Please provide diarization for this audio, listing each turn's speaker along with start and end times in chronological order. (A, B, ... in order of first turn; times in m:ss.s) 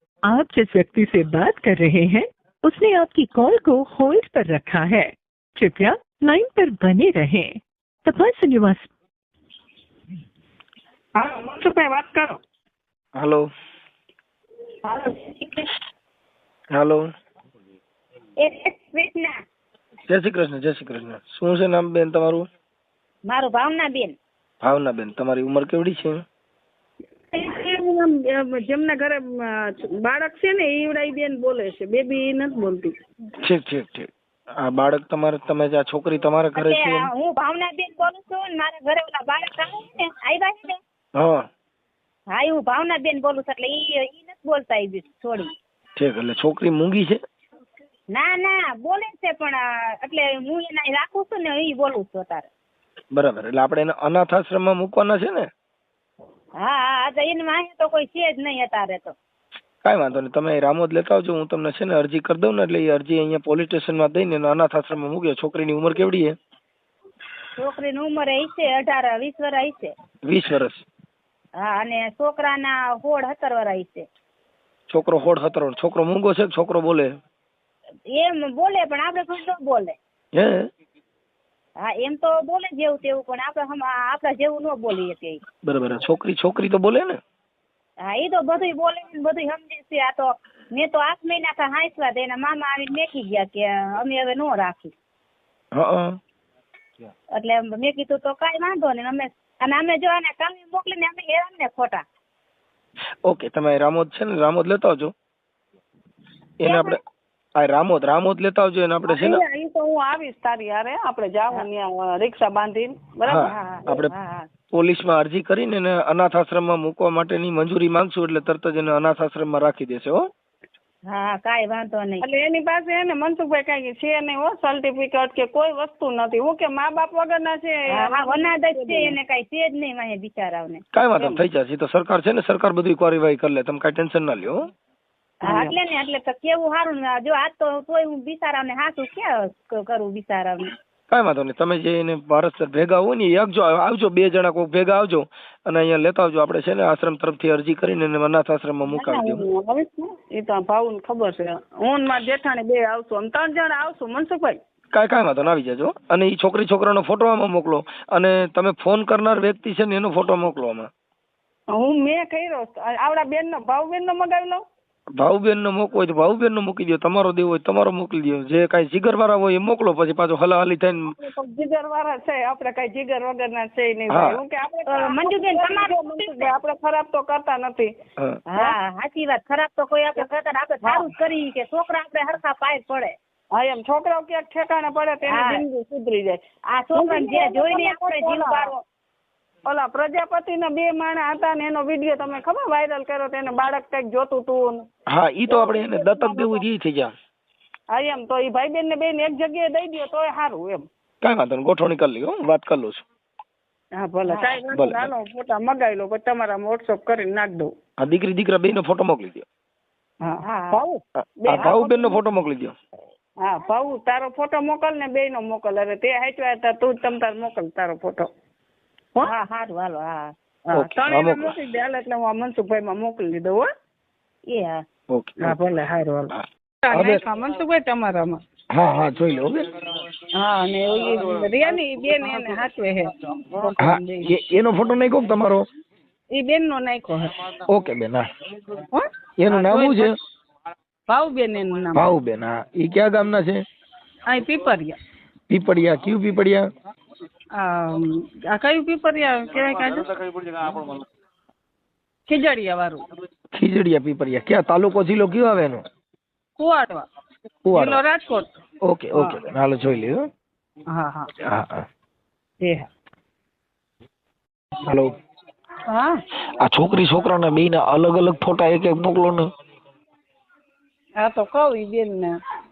0:00.3-0:08.9 A
0:11.1-0:12.4 B
0:13.2-0:13.5 C
0:14.9-0:15.7 D
0:16.7-0:17.0 C
0:18.4-0:19.4 D
0:20.1-0:22.4 C
0:23.3-0:24.1 D
0:24.6-0:26.2 C
0:27.3-0:32.9 B
0:33.4-0:37.1 C
0:36.6-0:40.8 D
0:41.2-0:41.4 C
0:42.3-0:45.5 D
0:46.0-0:47.2 C
0:48.1-0:52.5 D
0:53.1-0:55.4 C
0:56.6-0:59.1 D
0:59.8-1:06.3 C
1:07.6-1:09.9 D
1:10.2-1:10.8 C
1:11.6-1:14.0 D
1:14.9-1:17.1 C
1:18.1-1:20.0 D
1:20.3-1:20.6 C
1:21.8-1:25.4 D
1:25.6-1:27.2 C
1:28.0-1:34.9 D
1:35.7-1:36.2 C
1:37.3-1:42.0 D
1:43.2-1:45.1 C
1:46.6-1:47.0 C
1:46.6-1:47.0 D
1:47.6-1:49.4 C
1:49.1-1:53.5 B
1:53.2-1:54.1 C
1:53.5-1:54.5 D
1:54.7-2:00.3 C
2:01.1-2:02.2 D
2:02.2-2:09.2 B
2:08.0-2:11.3 D
2:10.9-2:14.6 C
2:15.4-2:15.8 B
2:15.4-2:20.7 D
2:21.1-2:29.4 C
2:28.9-2:34.6 B
2:34.9-2:40.9 C
2:41.7-2:44.6 B
2:45.2-2:51.1 C
2:51.2-2:57.9 B
2:54.1-2:54.4 C
2:54.9-2:56.5 D
2:58.5-3:03.1 D
3:00.8-3:01.1 B
3:03.5-3:06.4 B
3:05.3-3:05.6 D
3:06.7-3:08.7 D
3:06.9-3:08.8 B
3:09.7-3:14.8 B
3:15.1-3:17.1 C
3:15.5-3:16.6 B
3:17.9-3:20.8 B
3:21.2-3:23.0 C
3:24.0-3:27.7 B
3:24.3-3:24.6 D
3:24.7-3:25.1 C
3:28.0-3:29.4 C
3:30.2-3:32.2 B
3:30.4-3:30.8 D
3:31.4-3:32.7 C
3:33.4-3:38.3 B
3:39.2-3:40.3 D
3:40.7-3:41.5 C
3:40.8-3:43.7 B
3:44.5-3:44.8 D
3:45.1-3:45.6 C
3:45.4-3:48.4 B
3:46.3-3:47.2 C
3:48.7-3:49.7 C
3:50.3-3:54.2 B
3:53.8-3:55.6 C
3:56.3-3:57.4 B
3:57.7-3:58.2 C
3:58.9-4:00.1 B
3:59.4-4:00.1 C
4:01.1-4:02.1 B
4:01.9-4:03.6 C
4:04.3-4:05.0 B
4:05.5-4:06.6 C
4:07.5-4:10.2 B
4:12.3-4:13.0 B
4:13.5-4:15.8 C
4:16.6-4:17.0 B
4:17.6-4:18.0 C
4:17.7-4:18.5 B
4:18.8-4:20.2 C
4:20.9-4:21.3 B
4:21.4-4:21.8 C
4:22.6-4:22.9 B
4:24.8-4:25.1 C
4:25.9-4:26.2 B
4:26.6-4:29.5 C
4:31.2-4:32.3 B